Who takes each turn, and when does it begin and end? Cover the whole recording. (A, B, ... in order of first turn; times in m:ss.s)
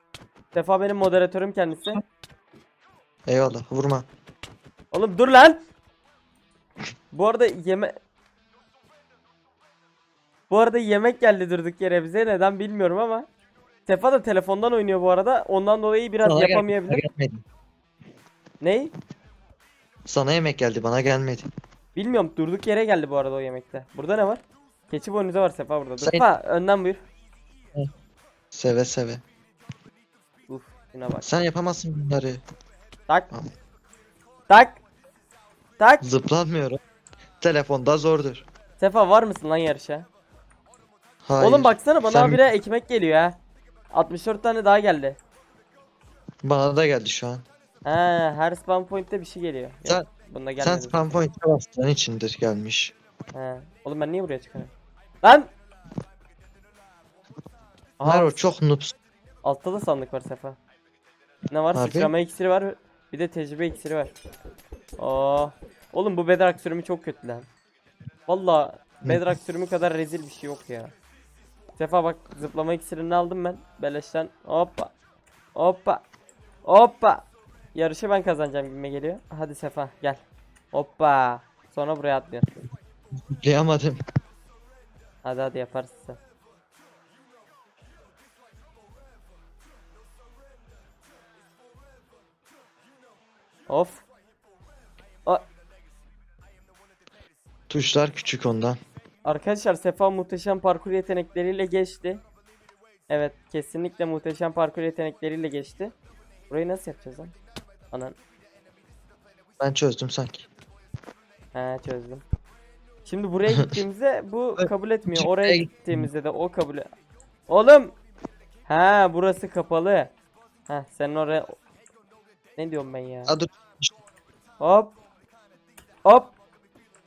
0:00.5-0:02.0 A
0:03.3-0:04.0 B
0:04.9-0:05.6 A
0:07.1-0:07.9 A
0:10.5-0:13.3 A
0:13.8-0:17.0 A
0:16.2-0:17.4 B
0:18.6-0:18.9 A
0:20.1-0:21.5 B
0:21.9-0:27.0 A
0:26.0-0:26.2 B
0:28.5-0:29.2 B
0:30.5-0:31.3 A
0:31.2-0:32.4 B
0:34.5-0:34.8 A
0:35.8-0:36.0 A
0:36.0-0:36.8 B
0:37.4-0:38.4 B
0:38.8-0:40.1 A
0:41.2-0:42.4 B
0:41.4-0:43.4 A
0:43.9-0:45.2 A
0:46.4-0:47.4 B
0:47.8-0:51.0 A
0:50.6-0:52.9 B
0:53.3-0:55.5 A
0:58.0-0:58.5 A
0:58.0-0:58.9 B
0:59.4-1:00.6 A
1:01.5-1:04.1 A
1:01.7-1:02.1 B
1:05.0-1:07.5 A
1:08.3-1:10.9 A
1:11.8-1:14.9 A
1:15.5-1:16.0 A
1:16.6-1:22.4 A
1:23.3-1:24.0 B
1:25.2-1:26.2 A
1:33.7-1:34.0 A
1:37.7-1:38.8 B
1:39.2-1:42.2 A
1:43.1-1:45.9 A
1:46.5-1:47.4 A
1:49.6-1:50.5 B
1:51.5-1:52.2 A
1:53.0-1:56.9 A
1:54.6-1:56.1 B
1:57.5-1:57.9 A
1:58.7-2:00.1 A
2:00.7-2:01.6 A
2:02.6-2:03.3 A
2:03.3-2:03.9 B
2:04.6-2:04.9 A
2:06.0-2:06.3 A